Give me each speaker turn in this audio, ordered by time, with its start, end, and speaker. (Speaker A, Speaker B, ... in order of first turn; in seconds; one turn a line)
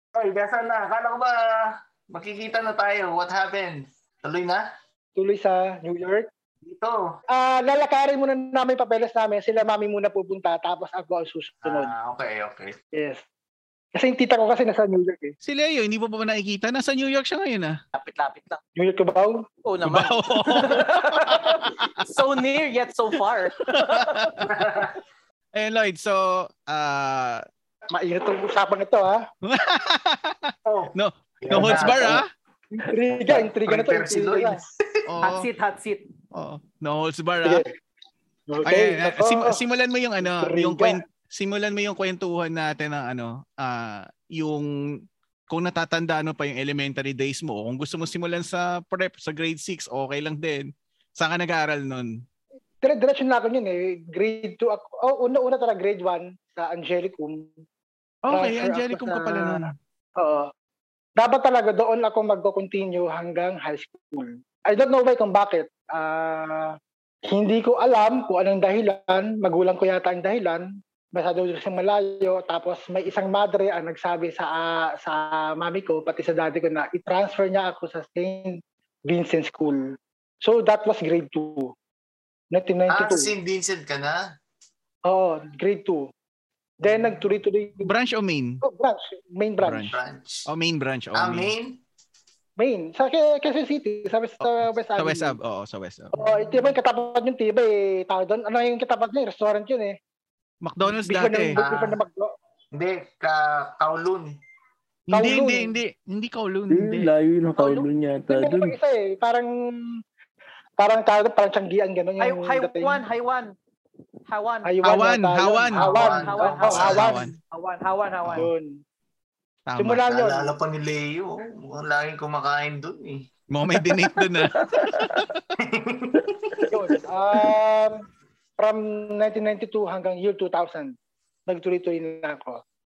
Speaker A: 0.1-4.7
Speaker B: 5.2-6.3
Speaker A: 6.7-7.2
Speaker B: 7.3-11.9
Speaker A: 11.6-12.8
Speaker B: 12.9-13.2
Speaker B: 13.9-15.3
Speaker C: 15.4-17.8
Speaker D: 17.9-18.6
Speaker B: 18.8-19.4
Speaker D: 19.6-24.3
Speaker C: 19.8-22.2
Speaker C: 23.6-24.4
Speaker A: 24.4-25.0
Speaker C: 25.6-27.4
Speaker B: 27.9-29.2
Speaker C: 29.4-32.2
Speaker A: 30.7-32.2
Speaker B: 32.7-34.6
Speaker A: 33.2-35.1
Speaker C: 35.1-35.5
Speaker D: 35.2-36.1
Speaker C: 36.3-37.6
Speaker B: 37.4-37.7
Speaker B: 38.5-39.6
Speaker C: 38.6-44.7
Speaker B: 40.2-41.0
Speaker C: 45.5-52.1
Speaker B: 52.8-57.5
Speaker C: 58.2-59.7
Speaker B: 58.3-59.7
Speaker B: 60.2-60.5
Speaker B: 61.2-81.7
Speaker B: 82.5-83.3
Speaker A: 82.9-84.2
Speaker B: 85.1-86.1
Speaker B: 86.8-87.9
Speaker C: 87.8-88.6
Speaker B: 88.6-89.9
Speaker C: 89.6-90.0
Speaker A: 89.9-90.5
Speaker C: 90.5-91.5
Speaker A: 91.2-91.8
Speaker B: 92.6-95.3
Speaker C: 94.4-96.2
Speaker B: 96.1-100.0
Speaker C: 100.6-101.6
Speaker B: 100.9-102.3
Speaker A: 101.6-102.0
Speaker A: 102.7-104.3
Speaker C: 105.1-107.1
Speaker B: 105.1-105.7
Speaker E: 106.7-108.8
Speaker D: 107.6-107.9
Speaker B: 108.3-109.5
Speaker B: 110.8-113.0
Speaker D: 112.2-113.5
Speaker D: 114.3-115.0
Speaker B: 114.7-117.3
Speaker C: 114.8-115.9
Speaker A: 115.8-117.1
Speaker D: 115.9-118.5
Speaker C: 116.8-117.3
Speaker B: 118.3-118.8
Speaker C: 119.7-120.0
Speaker B: 119.8-120.5
Speaker A: 120.0-123.3
Speaker C: 123.5-125.5
Speaker E: 124.7-125.2
Speaker A: 125.6-126.7
Speaker B: 126.7-128.0
Speaker B: 128.6-130.9
Speaker B: 131.5-132.6